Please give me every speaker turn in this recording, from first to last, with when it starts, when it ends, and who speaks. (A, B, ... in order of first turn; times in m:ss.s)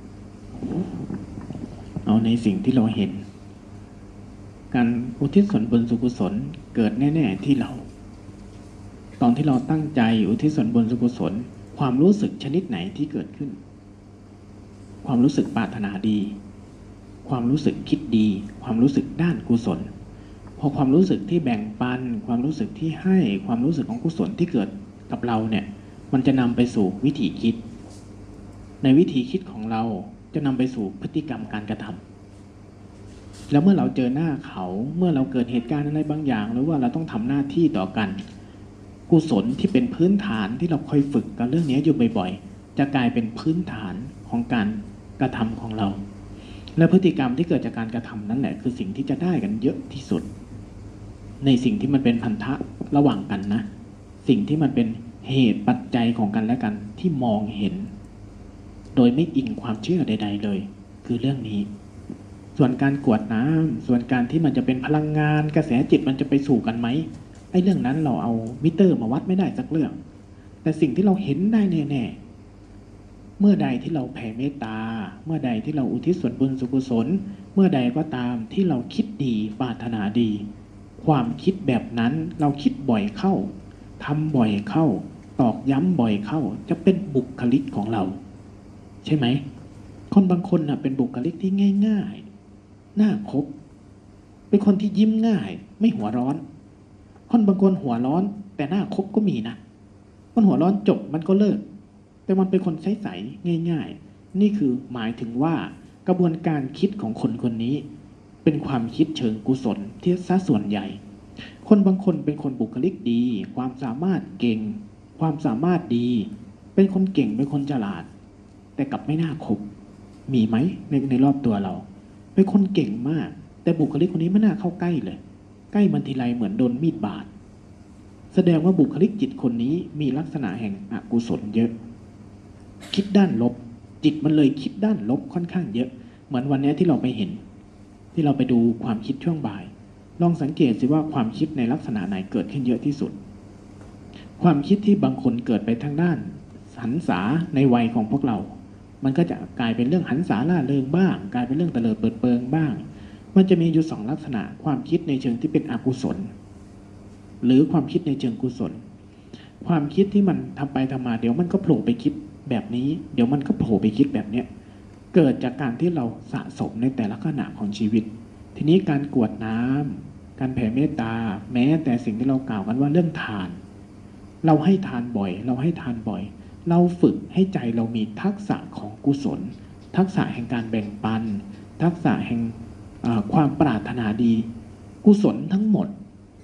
0:00.6-0:01.0 A
0:02.0-0:03.2 A
0:04.7-0:07.8 A
0:09.2-0:13.6 A
0:15.0-0:16.4 A
0:17.2-0:19.9 A
0:20.6-0:27.6 A
0:28.8-0:32.0 A
0:33.5-0:38.2 A
0:39.1-0:46.0 A
0:46.8-0:50.3 A
0:51.4-0:53.6 A
0:54.2-0:57.9 A
0:58.9-1:01.7 A
1:02.5-1:10.0 A
1:10.6-1:12.2 A
1:13.4-1:20.4 A
1:21.0-1:28.2 A
1:29.0-1:29.4 A
1:30.1-1:32.3 A
1:33.0-1:33.5 A
1:34.5-1:36.4 A
1:37.3-1:39.6 A
1:40.3-1:41.6 A
1:42.3-1:47.8 A
1:48.4-1:58.1 A
1:58.8-1:59.6 A
2:00.3-2:05.2 A
2:05.7-2:07.3 A
2:08.3-2:11.7 A
2:12.9-2:17.4 A
2:18.1-2:23.2 A
2:24.4-2:36.3 A
2:37.4-2:38.8 A
2:39.6-2:44.5 A
2:45.1-2:53.6 A
2:54.4-3:04.5 A
3:05.0-3:05.9 A